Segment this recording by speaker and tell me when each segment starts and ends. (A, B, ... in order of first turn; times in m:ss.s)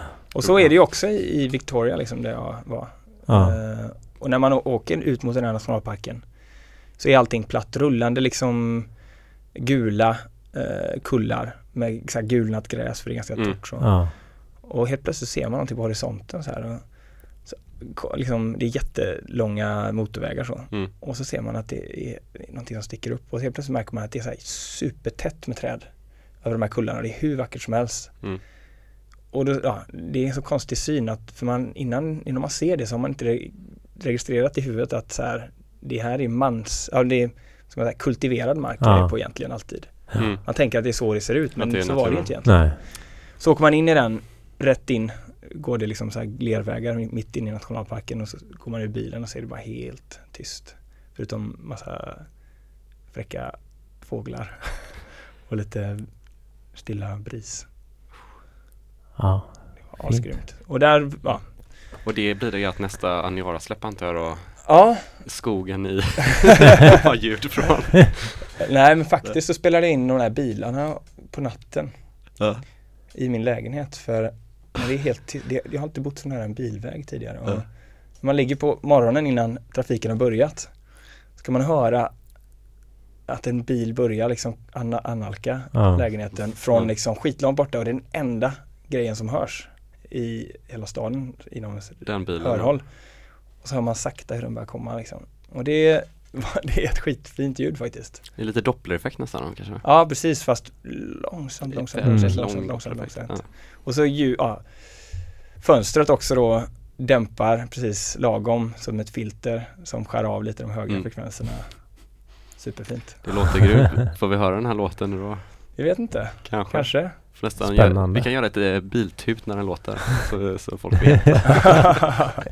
0:00.3-0:28.3 A
0:00.4-0:00.7 B
0:03.3-0:03.6 C
0:13.8-0:14.1 C
0:29.3-0:57.7 A
0:38.8-0:39.1 C
0:40.2-0:40.4 B
0:41.6-0:42.3 B
0:42.4-0:42.8 C
0:59.2-1:00.2 C
0:59.9-1:01.5 A
1:02.0-1:08.6 B
1:04.6-1:05.3 A
1:08.6-1:12.4 A
1:12.4-1:12.6 B
1:13.1-1:22.1 A
1:23.3-1:38.2 A
1:25.7-1:26.0 C
1:26.5-1:26.9 B
1:32.0-1:32.7 B
1:38.4-1:39.8 B
1:39.8-1:53.4 A
1:41.6-1:43.4 B
1:42.0-1:42.4 C
1:53.2-2:02.0 B
1:55.8-1:57.2 A
1:57.6-1:58.3 C
2:01.8-2:02.1 A